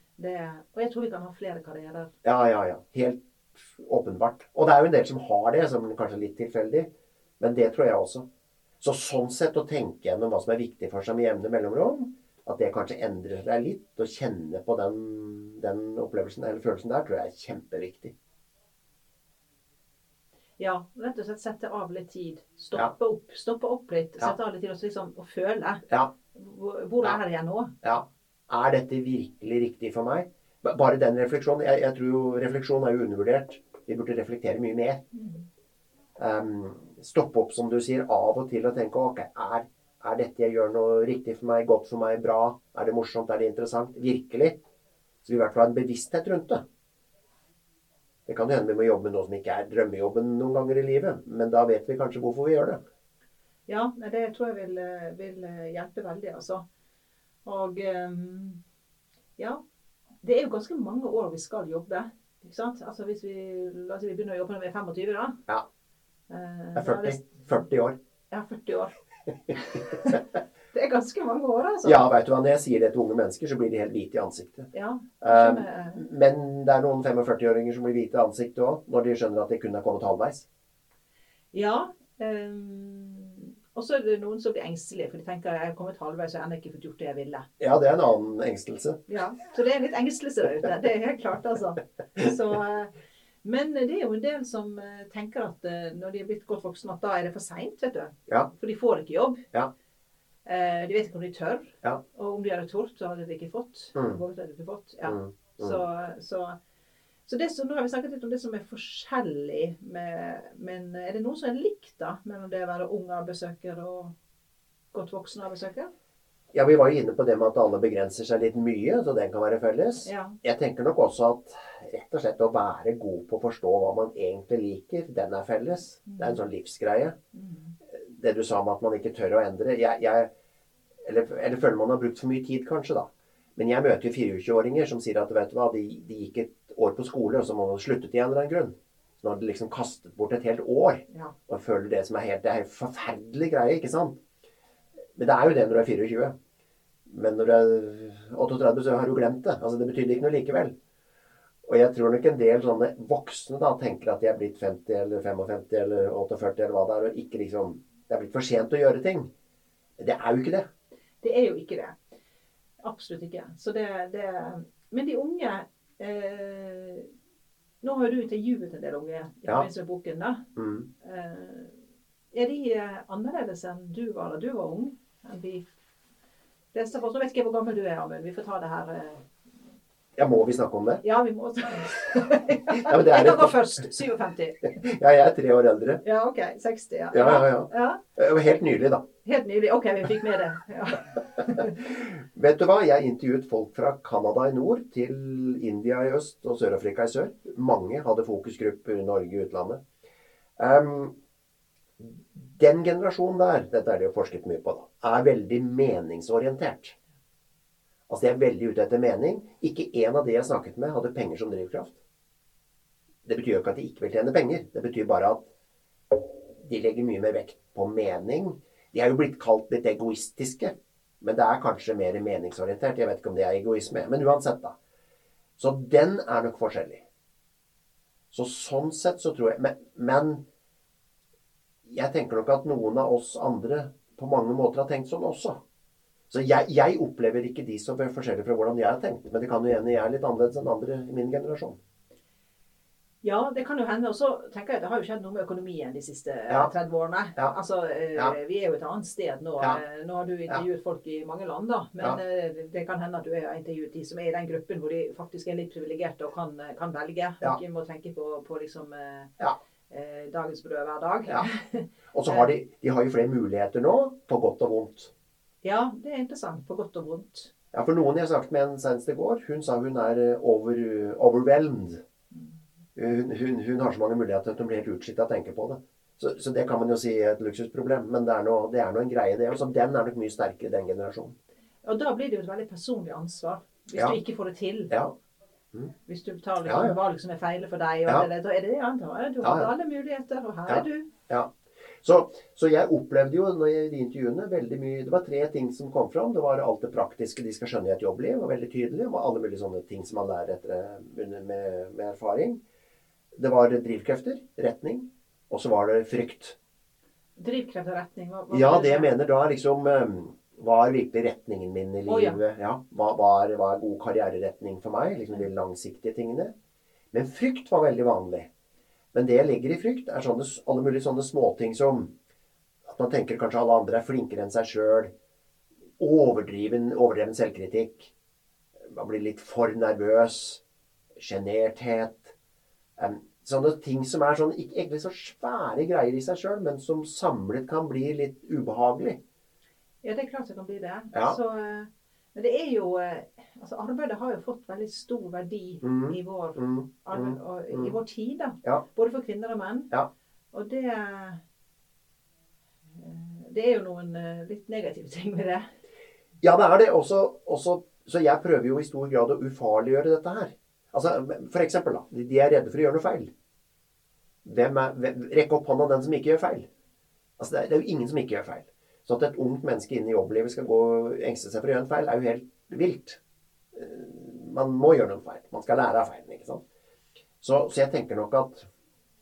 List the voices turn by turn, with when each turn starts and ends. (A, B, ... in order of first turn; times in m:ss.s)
0:00.2-0:02.1 A
0:02.2-0:08.2 B
0:08.8-0:18.1 B
0:20.6-0:25.8 A
0:26.3-0:27.7 A
0:27.8-0:35.0 B
0:36.2-0:44.6 B
0:45.2-0:46.6 B
0:48.2-0:52.8 B
0:53.7-0:56.6 A
0:57.4-0:58.6 A
1:00.2-1:05.4 A
1:06.3-1:07.3 A
1:06.7-1:08.0 B
1:08.3-1:08.9 A
1:09.6-1:10.1 A
1:10.7-1:12.0 A
1:11.8-1:14.7 B
1:14.7-1:16.0 A
1:15.2-1:20.5 B
1:21.5-1:27.4 A
1:27.6-1:29.0 B
1:29.1-1:32.9 A
1:33.4-1:39.4 A
1:40.4-1:46.6 A
1:43.9-1:44.2 B
1:45.0-1:45.8 B
1:47.3-1:54.1 A
1:54.9-1:55.9 A
1:56.5-2:07.2 B
2:00.0-2:00.4 A
2:07.3-2:07.7 A
2:07.9-2:10.3 B
2:11.0-2:24.2 B
2:25.2-2:26.3 B
2:27.1-2:30.7 B
2:31.6-2:39.3 B
2:40.0-2:40.6 B
2:41.2-2:42.0 A
2:42.8-2:47.1 A
2:47.8-2:50.4 A
2:50.6-2:50.9 B
2:51.0-2:51.7 A
2:52.3-2:55.7 A
2:56.7-2:59.2 A
3:00.2-3:01.0 B
3:01.0-3:04.6 A
3:02.8-3:03.9 B
3:04.6-3:06.0 B
3:06.0-3:08.0 A
3:07.1-3:09.0 B
3:09.2-3:11.8 A
3:11.7-3:19.8 B
3:20.6-3:21.1 B
3:22.0-3:26.9 B
3:28.1-3:32.0 B
3:33.2-3:35.4 B
3:36.1-3:44.8 B
3:45.6-3:47.0 B
3:48.3-3:50.4 B
3:51.8-3:55.6 B
3:56.3-4:01.8 B
4:03.2-4:19.3 A
4:19.9-4:22.5 A
4:22.1-4:25.1 B
4:25.6-4:27.5 A
4:27.7-4:32.0 B
4:33.0-4:41.3 B
4:41.8-4:44.9 A
4:46.1-4:51.1 A
4:46.6-4:46.9 B
4:49.4-4:49.7 B
4:50.7-5:02.6 B
5:03.3-5:06.6 B
5:07.4-5:09.1 A
5:08.5-5:16.5 B
5:12.1-5:12.4 A
5:17.1-5:18.5 B
5:19.1-5:22.1 B
5:22.8-5:25.1 B
5:26.0-5:28.1 B
5:28.8-5:30.6 B
5:31.2-5:32.3 B
5:33.0-5:39.2 B
5:40.0-5:49.9 A
5:45.8-5:47.9 B
5:50.5-5:51.4 A
5:53.0-5:55.7 A
5:56.4-6:03.3 B
6:04.4-6:06.7 B
6:07.4-6:13.2 B
6:13.7-6:16.6 B
6:17.4-6:18.7 B